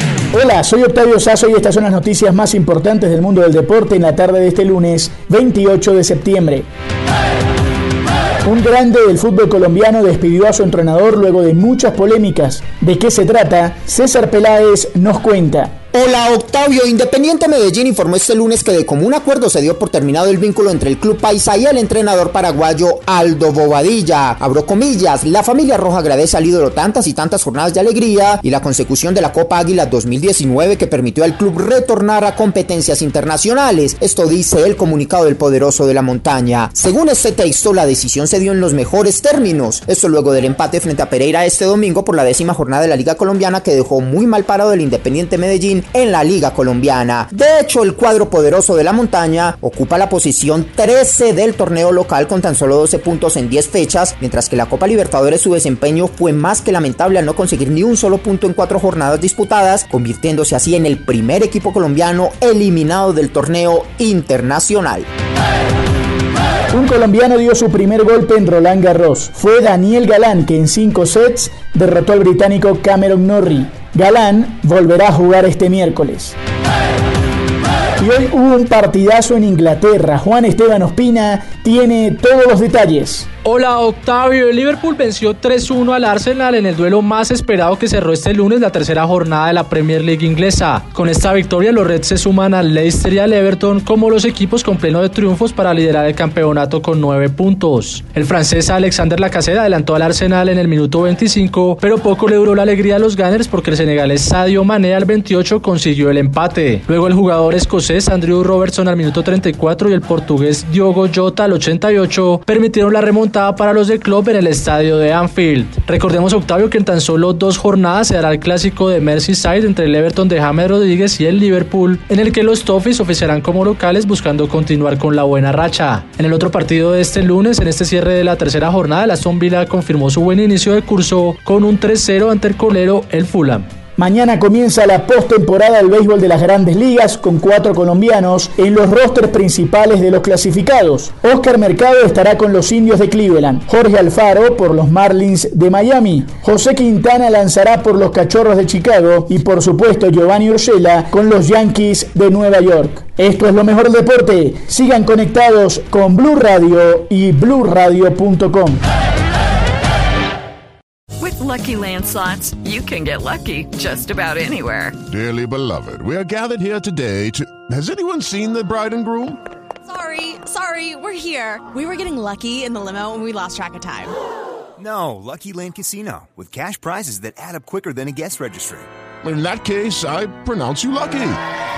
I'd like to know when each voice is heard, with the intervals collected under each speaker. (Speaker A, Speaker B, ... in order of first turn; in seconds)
Speaker A: 0.3-6.7, 8.5-15.8, 66.7-76.4, 78.0-83.3, 134.0-158.8
Speaker B: 15.9-65.1
Speaker C: 83.5-133.7
Speaker D: 161.2-165.0
Speaker E: 165.1-169.4, 179.2-181.4
Speaker F: 169.8-174.1
Speaker G: 174.8-178.9